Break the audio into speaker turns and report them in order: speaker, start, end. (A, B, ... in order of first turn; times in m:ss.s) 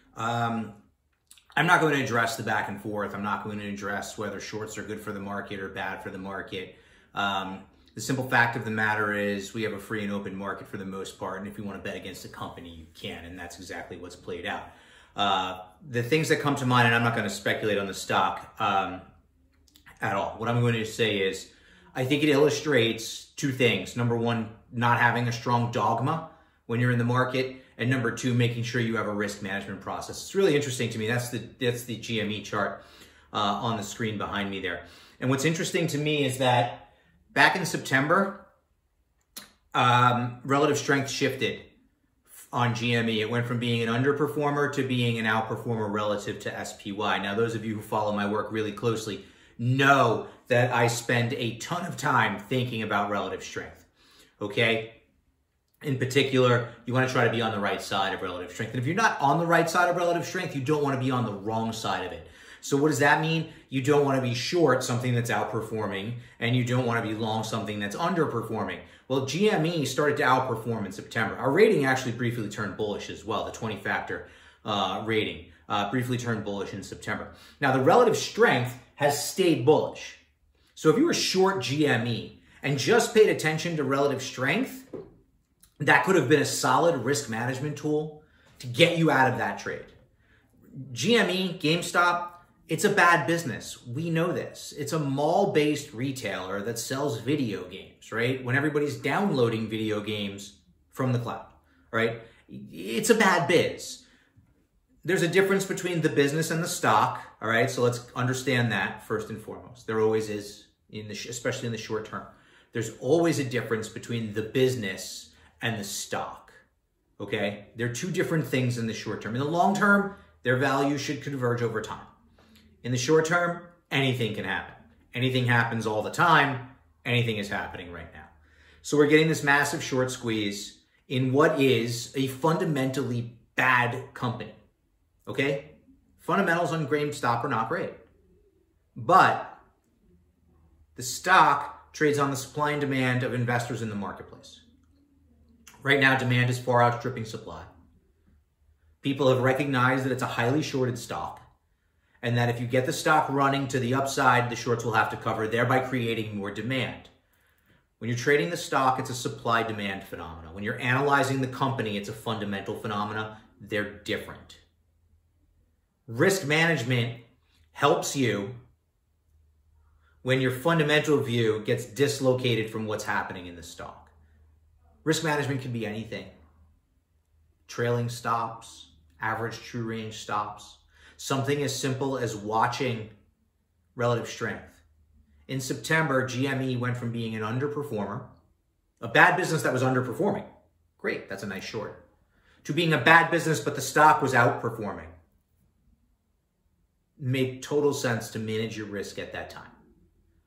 0:00.1-0:00.7 A
0:01.6-0:19.0 A
0:20.0-0:32.8 A
0:33.3-0:38.4 A
0:39.7-0:41.6 A
0:42.3-0:53.9 A
0:54.4-0:55.0 A
0:55.8-1:20.2 A
1:20.8-1:24.9 A
1:25.8-1:29.9 A
1:30.8-1:44.0 A
1:45.0-1:56.6 A
1:57.2-2:02.1 A
2:02.8-2:08.3 A
2:08.8-2:14.6 A
2:15.2-2:18.0 A
2:18.9-2:19.6 A
2:21.0-2:24.6 A
2:25.8-2:27.7 A
2:29.0-2:31.4 A
2:32.2-2:37.1 A
2:38.0-2:44.6 A
2:46.1-2:47.2 A
2:47.7-2:48.6 A
2:50.2-2:54.1 A
2:55.0-2:56.3 A
2:57.7-3:03.1 A
3:03.9-3:04.8 A
3:05.5-3:08.3 A
3:09.0-3:12.0 A
3:12.6-3:15.1 A
3:17.2-3:19.8 A